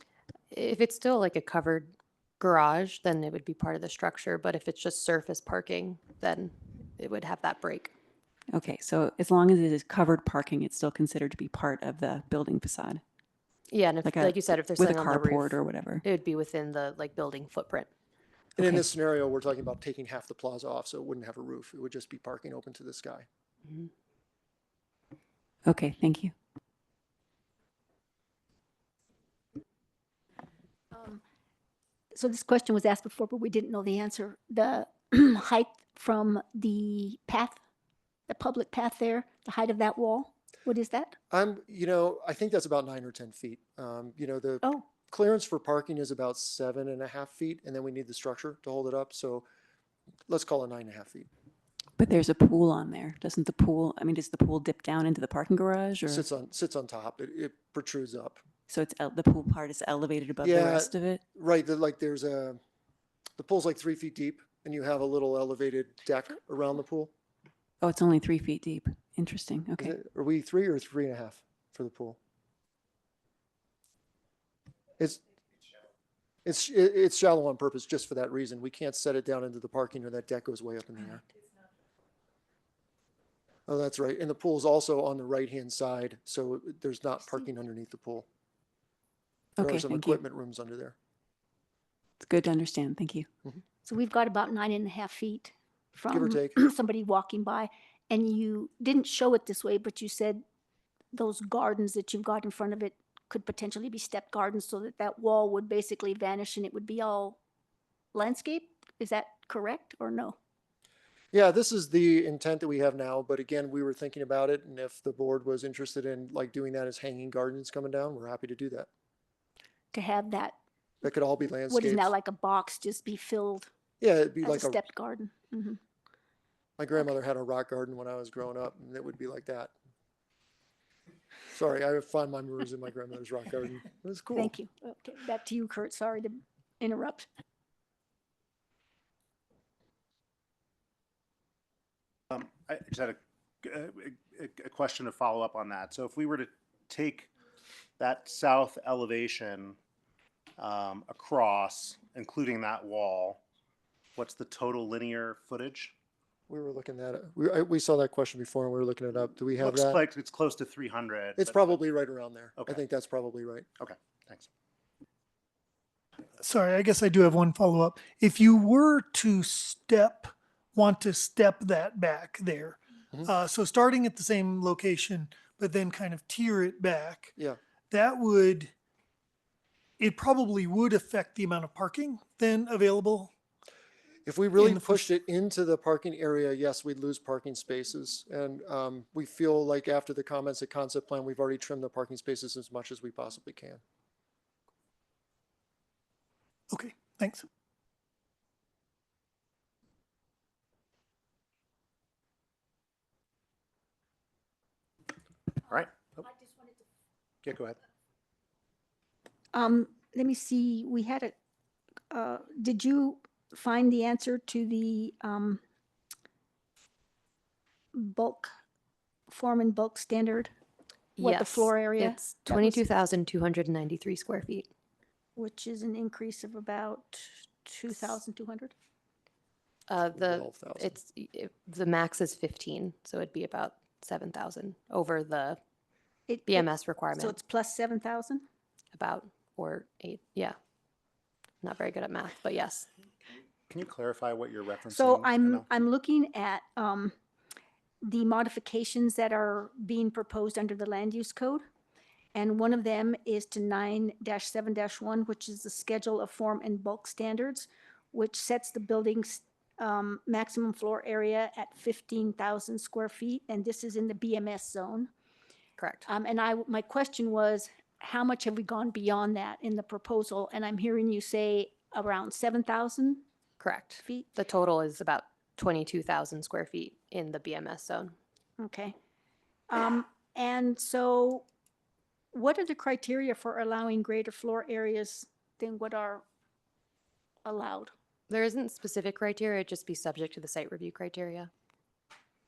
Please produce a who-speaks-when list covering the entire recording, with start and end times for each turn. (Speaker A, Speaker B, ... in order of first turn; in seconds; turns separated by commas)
Speaker A: 0.5-7.9, Speaker B: 8.5-13.0, Speaker A: 13.7-17.9, Speaker B: 14.0-16.0, Speaker C: 18.6-23.3, Speaker B: 18.6-18.8, Speaker B: 25.6-26.3, Speaker D: 30.9-31.2, Speaker D: 32.1-37.6, Speaker D: 38.3-41.1, Speaker C: 41.3-49.5, Speaker C: 50.3-51.3, Speaker B: 52.0-56.2, Speaker C: 56.1-58.4, Speaker B: 58.7-61.2, Speaker C: 60.4-62.6, Speaker C: 63.4-67.1, Speaker B: 67.8-70.0, Speaker C: 69.8-72.2, Speaker C: 76.5-81.2, Speaker C: 83.7-88.2, Speaker B: 89.6-90.2, Speaker C: 89.6-91.0, Speaker B: 92.2-93.3, Speaker D: 93.8-100.4, Speaker C: 96.1-96.6, Speaker D: 101.1-107.4, Speaker D: 108.1-110.4, Speaker C: 111.3-118.9, Speaker D: 119.9-120.6, Speaker C: 121.0-122.1, Speaker D: 121.7-123.7, Speaker C: 124.0-124.8, Speaker D: 124.4-125.8, Speaker C: 126.8-129.7, Speaker C: 131.5-134.5, Speaker D: 134.3-137.3, Speaker E: 142.3-147.3, Speaker E: 148.0-149.8, Speaker E: 150.6-153.4, Speaker E: 154.2-155.9, Speaker C: 156.5-160.0, Speaker E: 159.6-161.9, Speaker C: 161.4-163.7, Speaker E: 162.6-162.8, Speaker E: 163.8-164.5, Speaker F: 166.4-177.3, Speaker F: 177.9-178.7, Speaker F: 180.0-183.3, Speaker C: 184.2-193.8, Speaker F: 184.6-185.0, Speaker F: 196.7-197.5, Speaker E: 205.6-206.3, Speaker E: 207.4-207.8, Speaker D: 209.5-211.3, Speaker D: 212.1-215.6, Speaker D: 217.9-218.5, Speaker D: 219.3-220.5, Speaker A: 221.2-224.7, Speaker D: 221.2-222.8, Speaker D: 225.3-228.7, Speaker A: 229.9-235.6, Speaker C: 230.2-230.9, Speaker D: 236.3-238.4, Speaker A: 236.5-237.4, Speaker A: 238.9-240.6, Speaker A: 241.6-242.9, Speaker E: 243.7-245.7, Speaker D: 244.9-247.1, Speaker D: 248.0-251.6, Speaker D: 252.3-265.1, Speaker A: 265.8-266.1, Speaker D: 266.1-273.2, Speaker A: 273.6-278.1, Speaker D: 274.0-274.3, Speaker D: 278.6-278.9, Speaker D: 279.7-281.4, Speaker D: 282.3-286.2, Speaker D: 287.4-287.9, Speaker A: 288.3-291.5